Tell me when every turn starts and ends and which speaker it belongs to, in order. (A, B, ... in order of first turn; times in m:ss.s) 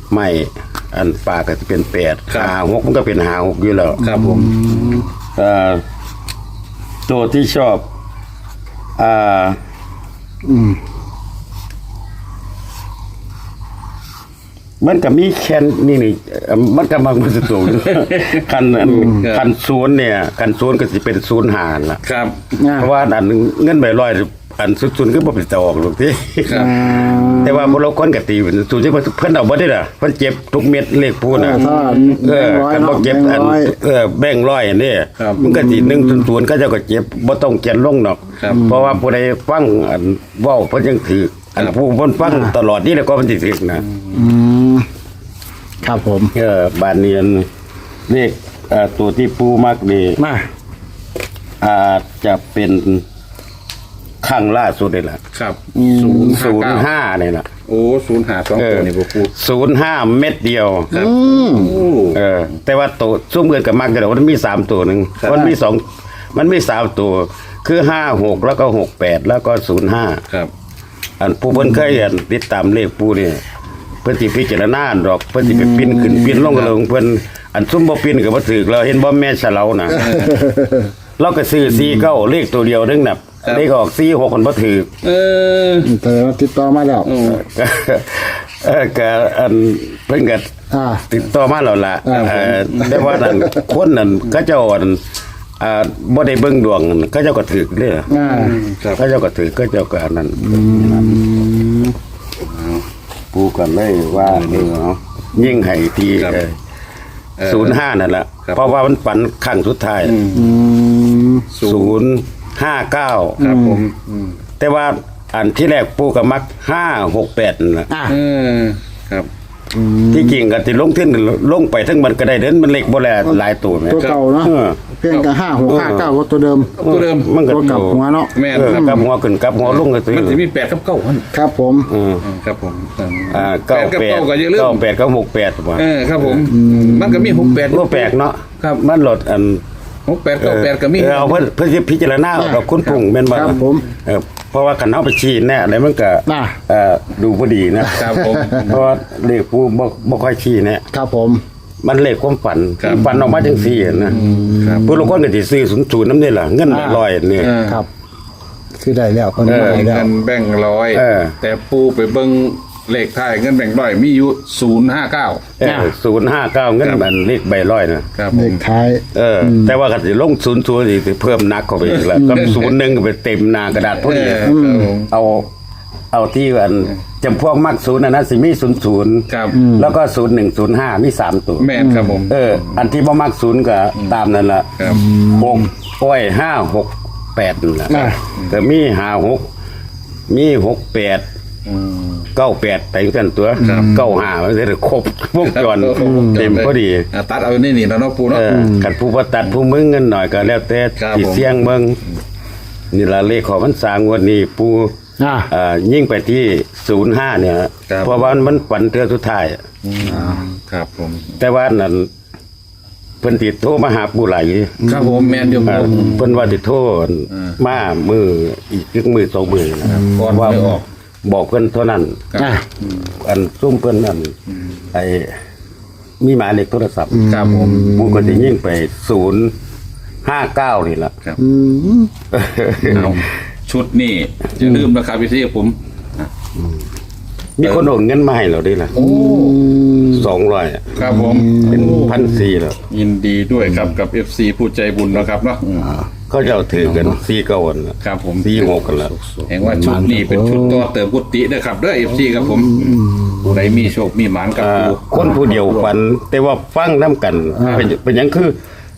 0:00.1-0:04.0 A
0:02.3-0:02.5 B
0:04.0-0:05.1 B
0:04.0-0:05.1 C
0:05.4-0:05.8 A
0:07.1-0:07.8 A
0:09.0-0:09.6 A
0:10.4-0:10.8 C
0:14.8-0:22.0 A
0:17.9-0:18.3 B
0:18.8-0:19.3 C
0:19.0-0:19.4 B
0:22.0-0:22.4 B
0:22.5-0:22.9 C
0:22.8-0:31.6 A
0:26.4-0:27.3 B
0:26.5-0:27.8 C
0:31.3-0:33.8 C
0:31.5-0:32.1 B
0:32.2-0:43.9 A
0:35.2-0:35.4 B
0:35.4-0:36.3 C
0:38.4-0:38.7 B
0:38.5-0:39.0 C
0:42.2-0:42.6 C
0:43.9-0:44.3 B
0:44.1-0:44.9 C
0:45.8-0:46.4 C
0:46.3-0:47.5 A
0:48.1-0:50.2 A
0:50.2-0:50.5 C
0:51.6-0:53.0 A
0:54.2-0:55.2 A
0:55.3-0:56.9 B
0:55.7-0:56.4 C
0:56.2-0:57.5 A
0:57.7-0:59.3 B
0:58.6-1:00.9 A
1:00.9-1:02.2 B
1:00.9-1:01.9 C
1:02.1-1:10.2 A
1:05.2-1:05.5 B
1:11.2-1:13.4 A
1:14.0-1:20.1 A
1:15.5-1:16.4 C
1:16.4-1:16.8 B
1:19.9-1:20.4 B
1:19.9-1:20.9 C
1:21.2-1:24.9 A
1:21.7-1:22.1 C
1:25.0-1:25.9 B
1:25.8-1:27.2 C
1:27.0-1:27.4 B
1:27.2-1:30.5 A
1:30.7-1:31.0 C
1:31.1-1:35.0 A
1:32.0-1:33.6 C
1:32.1-1:33.1 B
1:35.6-1:38.1 A
1:38.1-1:38.6 C
1:38.1-1:39.0 B
1:39.0-1:41.2 A
1:40.4-1:41.9 C
1:42.4-1:42.8 B
1:43.3-1:46.6 A
1:44.1-1:44.7 B
1:46.2-1:46.4 B
1:47.4-1:47.8 B
1:47.4-1:50.2 A
1:48.4-1:48.7 B
1:50.0-1:50.6 B
1:50.3-1:51.5 C
1:51.5-1:52.0 B
1:51.6-1:53.4 A
1:53.4-1:54.4 B
1:53.4-1:53.8 C
1:54.6-1:57.9 A
1:57.9-1:58.2 C
1:58.1-1:59.3 B
1:59.7-2:00.4 C
2:00.1-2:04.8 A
2:03.3-2:06.8 C
2:04.0-2:04.2 B
2:05.6-2:06.1 A
2:06.8-2:09.1 B
2:06.8-2:10.4 A
2:07.4-2:09.0 C
2:09.6-2:11.3 B
2:11.3-2:11.9 C
2:11.9-2:12.2 A
2:12.2-2:14.8 B
2:13.3-2:16.4 A
2:15.8-2:18.1 B
2:16.5-2:17.6 C
2:17.7-2:19.6 A
2:20.1-2:21.5 B
2:20.4-2:30.8 A
2:22.4-2:22.7 C
2:22.8-2:23.1 B
2:23.3-2:23.9 C
2:26.3-2:26.6 C
2:27.9-2:28.7 C
2:27.9-2:28.8 B
2:30.9-2:31.4 C
2:31.8-2:34.2 A
2:32.8-2:33.1 B
2:34.1-2:35.1 C
2:34.1-2:35.0 B
2:34.8-2:37.6 A
2:36.7-2:37.0 C
2:37.4-2:37.8 B
2:38.8-2:40.1 C
2:39.4-2:39.9 A
2:39.4-2:45.4 B
2:40.9-2:41.4 A
2:45.6-2:48.1 A
2:45.6-2:45.9 C
2:48.2-2:48.6 B
2:48.3-2:49.8 C
2:49.1-2:55.5 A
2:51.9-2:52.7 B
2:52.1-2:52.6 C
2:54.0-2:55.1 B
2:54.4-2:54.9 C
2:56.1-3:01.7 A
2:59.3-2:59.6 B
2:59.5-2:59.9 C
3:01.6-3:02.8 B
3:01.8-3:02.2 C
3:02.2-3:09.5 A
3:04.8-3:05.0 B
3:04.9-3:05.7 C
3:07.9-3:08.2 C
3:10.3-3:11.2 A
3:11.7-3:12.3 B
3:12.4-3:17.1 A
3:13.6-3:14.2 B
3:15.4-3:18.5 B
3:16.0-3:16.5 C
3:18.3-3:22.0 A
3:18.5-3:18.9 C
3:21.0-3:21.5 B
3:22.9-3:24.9 A
3:25.2-3:25.5 C
3:25.5-3:29.6 A
3:27.9-3:28.2 B
3:29.8-3:31.4 B
3:30.0-3:30.4 C
3:31.4-3:32.1 A
3:33.2-3:34.9 A
3:34.8-3:36.1 C
3:34.8-3:36.3 B
3:35.6-3:42.2 A
3:37.3-3:37.6 B
3:39.8-3:40.9 B
3:39.9-3:40.5 C
3:42.3-3:42.9 B
3:42.4-3:42.6 C
3:43.2-3:44.4 A
3:44.9-3:45.3 A
3:46.2-3:49.5 A
3:47.1-3:48.6 C
3:47.2-3:47.9 B
3:50.2-3:51.2 A
3:51.4-3:52.1 C
3:52.3-3:53.2 A
3:52.8-3:53.2 C
3:52.9-3:56.3 B
3:57.6-3:58.9 A
3:57.6-3:57.9 B
3:58.9-3:59.6 B
3:59.0-4:00.3 C
4:00.1-4:00.9 A
4:01.0-4:02.2 B
4:01.0-4:02.4 C
4:01.7-4:02.8 A
4:02.9-4:06.0 B
4:06.3-4:09.1 A
4:08.0-4:08.7 B
4:09.2-4:10.9 C
4:09.5-4:15.9 B
4:12.4-4:13.7 C
4:14.6-4:18.6 A
4:17.6-4:17.9 C